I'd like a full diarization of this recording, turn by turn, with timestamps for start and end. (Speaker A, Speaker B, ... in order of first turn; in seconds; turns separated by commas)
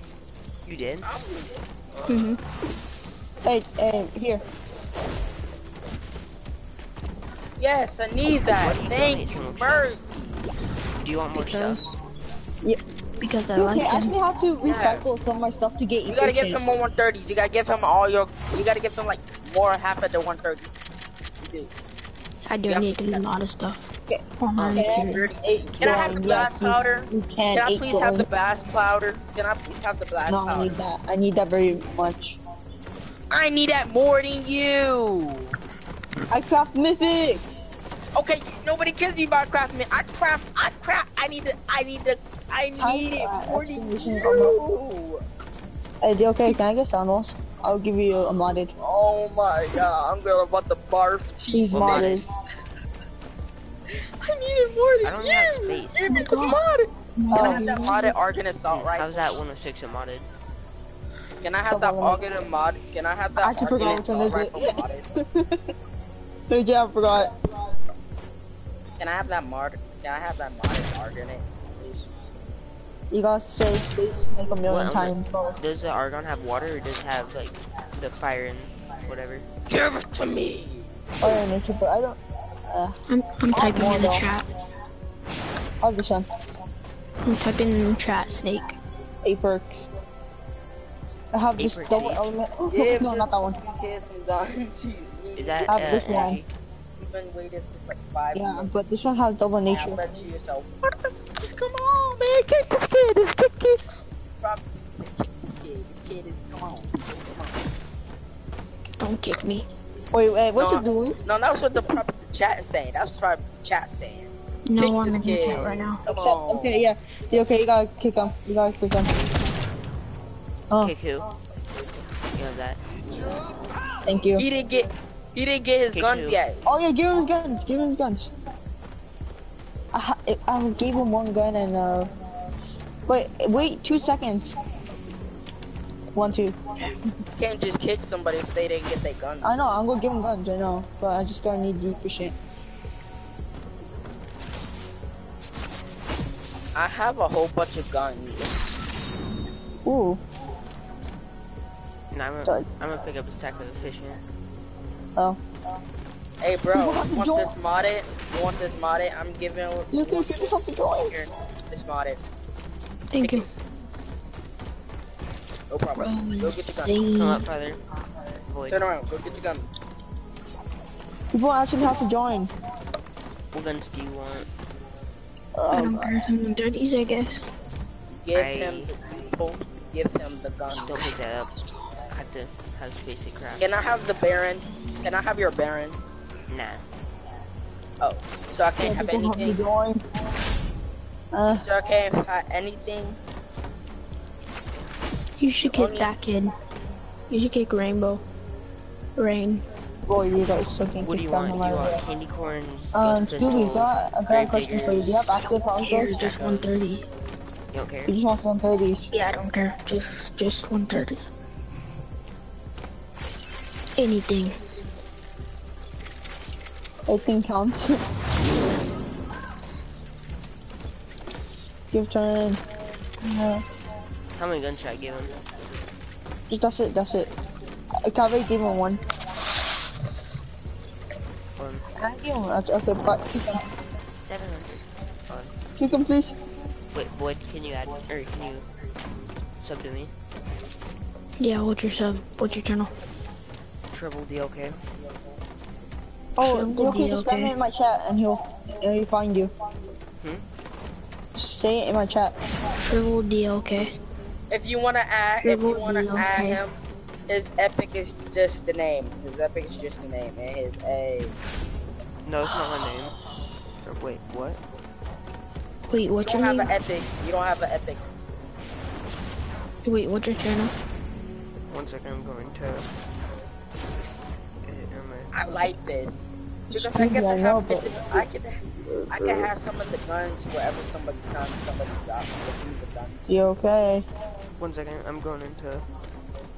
Speaker A: 0.7-1.1, Speaker B: 1.0-2.3, Speaker C: 2.1-2.4, Speaker D: 3.4-4.4, Speaker B: 7.6-10.4, Speaker A: 8.4-9.9, Speaker A: 11.0-11.8, Speaker C: 11.3-11.9, Speaker C: 13.2-14.2, Speaker D: 13.6-16.6, Speaker B: 14.6-15.0, Speaker B: 16.1-20.7, Speaker B: 21.4-21.7, Speaker C: 22.5-25.2, Speaker B: 22.7-23.3, Speaker A: 24.6-24.9, Speaker B: 24.8-30.8, Speaker D: 24.8-28.3, Speaker A: 25.7-26.2, Speaker D: 30.3-32.4, Speaker B: 33.3-35.6, Speaker D: 36.3-37.5, Speaker B: 38.1-45.2, Speaker D: 42.8-44.7, Speaker D: 46.0-48.7, Speaker B: 48.8-52.3, Speaker D: 51.5-52.2, Speaker A: 51.7-52.3, Speaker B: 53.9-59.4, Speaker A: 55.0-56.1, Speaker C: 56.1-56.6, Speaker C: 57.2-58.1, Speaker D: 57.3-57.8, Speaker A: 58.7-60.3, Speaker B: 61.4-65.1, Speaker D: 61.7-62.5, Speaker D: 63.4-65.6, Speaker D: 66.5-67.3, Speaker B: 69.0-72.1, Speaker D: 73.1-75.6, Speaker A: 74.7-79.5, Speaker B: 79.7-80.9, Speaker D: 81.2-83.0, Speaker C: 83.1-84.5, Speaker D: 83.5-84.3, Speaker D: 85.8-86.3, Speaker C: 87.2-88.8, Speaker D: 89.2-89.9, Speaker D: 91.3-93.7, Speaker A: 91.6-92.4, Speaker B: 92.7-96.3, Speaker A: 95.4-96.5, Speaker D: 95.7-96.4, Speaker B: 97.0-98.7, Speaker D: 98.3-100.0, Speaker B: 99.7-107.6, Speaker C: 109.0-109.7, Speaker D: 110.1-111.2, Speaker B: 110.6-116.8, Speaker C: 114.7-116.0, Speaker D: 116.1-119.1, Speaker A: 120.8-121.3, Speaker A: 122.3-122.8, Speaker D: 124.0-124.5, Speaker B: 124.4-126.6, Speaker A: 125.9-126.4, Speaker D: 126.7-128.3, Speaker D: 129.9-132.1, Speaker D: 133.1-134.6, Speaker D: 136.2-136.6, Speaker B: 137.4-139.6, Speaker D: 139.4-142.3, Speaker B: 146.8-148.6, Speaker D: 149.8-150.2, Speaker A: 152.1-154.2, Speaker B: 156.4-162.2, Speaker D: 156.7-157.5, Speaker D: 159.9-161.1, Speaker C: 163.1-163.5, Speaker B: 163.2-163.5, Speaker B: 165.7-166.9, Speaker C: 166.0-167.5, Speaker A: 167.2-167.8, Speaker A: 168.5-168.8, Speaker B: 168.7-169.7, Speaker D: 171.3-172.5, Speaker A: 173.5-174.5, Speaker D: 175.6-176.2, Speaker C: 175.7-177.5, Speaker B: 178.2-181.1, Speaker A: 178.3-178.9, Speaker A: 180.8-181.5, Speaker A: 182.1-183.7, Speaker B: 183.6-186.0, Speaker A: 186.5-186.8, Speaker B: 188.0-189.6, Speaker D: 188.8-190.0, Speaker D: 191.3-191.7, Speaker B: 191.6-193.2, Speaker C: 195.4-196.5, Speaker B: 195.6-196.1, Speaker C: 197.3-198.2, Speaker C: 199.2-199.6, Speaker D: 200.1-202.0, Speaker A: 201.0-205.4, Speaker D: 202.9-206.3, Speaker C: 205.7-207.1, Speaker A: 206.0-206.7, Speaker A: 207.7-208.1, Speaker D: 208.1-209.1, Speaker C: 209.1-211.2, Speaker C: 214.0-214.5, Speaker D: 217.1-218.0, Speaker D: 221.9-222.6, Speaker D: 223.2-223.6, Speaker A: 224.4-225.3, Speaker D: 226.5-227.3, Speaker D: 228.0-229.0, Speaker A: 231.6-231.8, Speaker D: 232.0-233.6, Speaker A: 234.0-235.5, Speaker D: 235.8-236.4, Speaker A: 236.9-238.7, Speaker A: 239.6-240.1, Speaker C: 241.4-242.9, Speaker A: 243.9-244.8, Speaker D: 246.4-249.5, Speaker C: 246.4-247.5, Speaker D: 251.3-252.3, Speaker C: 252.8-253.9, Speaker B: 254.5-256.8, Speaker C: 255.4-256.6, Speaker B: 257.3-261.4, Speaker A: 262.2-263.1, Speaker A: 263.8-264.6, Speaker C: 265.9-266.8, Speaker B: 266.2-268.0, Speaker C: 269.9-270.7, Speaker A: 271.7-272.9, Speaker A: 274.6-275.3, Speaker B: 275.3-283.4, Speaker D: 276.7-278.3, Speaker D: 278.8-279.5, Speaker D: 283.3-284.1, Speaker A: 284.6-285.9